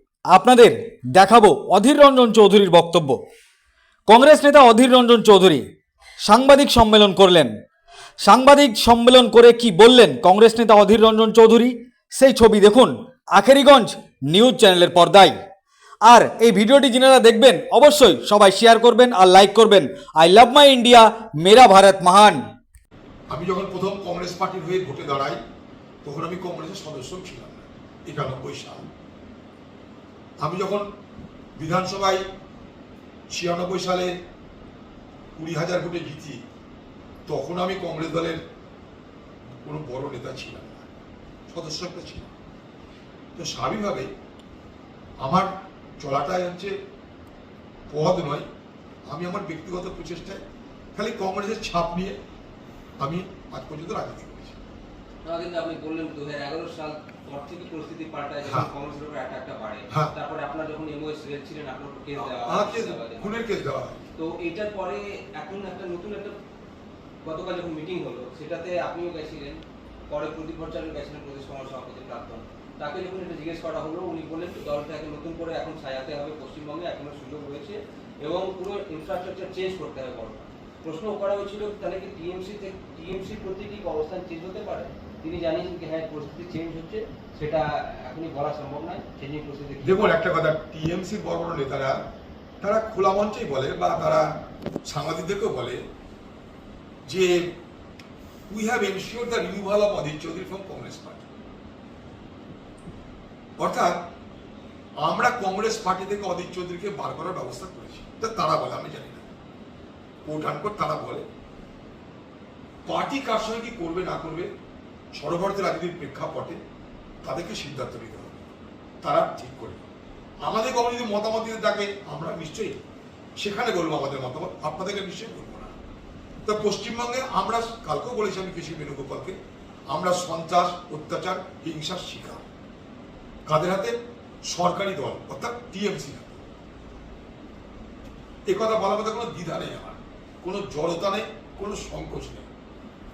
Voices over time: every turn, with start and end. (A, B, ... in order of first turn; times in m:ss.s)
0:00.3-0:03.2 A
0:04.1-0:05.7 A
0:06.2-0:07.6 A
0:08.2-0:15.4 A
0:16.0-0:22.4 A
0:23.3-0:25.4 B
0:26.0-0:28.9 B
0:30.4-0:30.9 B
0:31.6-0:32.2 B
0:33.3-0:34.1 B
0:35.4-0:36.4 B
0:37.3-0:38.4 B
0:39.6-0:40.9 B
0:41.5-0:42.3 B
0:43.4-0:44.1 B
0:45.2-0:46.7 B
0:47.9-0:48.5 B
0:49.1-0:50.4 B
0:51.0-0:52.2 B
0:53.0-0:54.6 B
0:55.3-1:03.2 C
1:02.2-1:04.0 B
1:04.2-1:06.3 C
1:07.2-1:09.6 C
1:10.1-1:30.0 C
1:29.8-1:32.0 B
1:32.6-1:34.3 B
1:34.8-1:35.8 B
1:37.0-1:37.5 B
1:38.5-1:41.3 B
1:43.6-1:44.0 B
1:45.0-1:49.3 B
1:50.2-1:51.2 B
1:52.8-1:54.5 B
1:55.1-1:56.6 B
1:57.2-1:58.4 B
1:59.0-1:59.8 B
2:00.4-2:02.8 B
2:03.4-2:05.7 B
2:06.4-2:09.4 B
2:09.9-2:12.4 B
2:13.5-2:13.9 B
2:14.4-2:16.4 B
2:18.5-2:22.5 B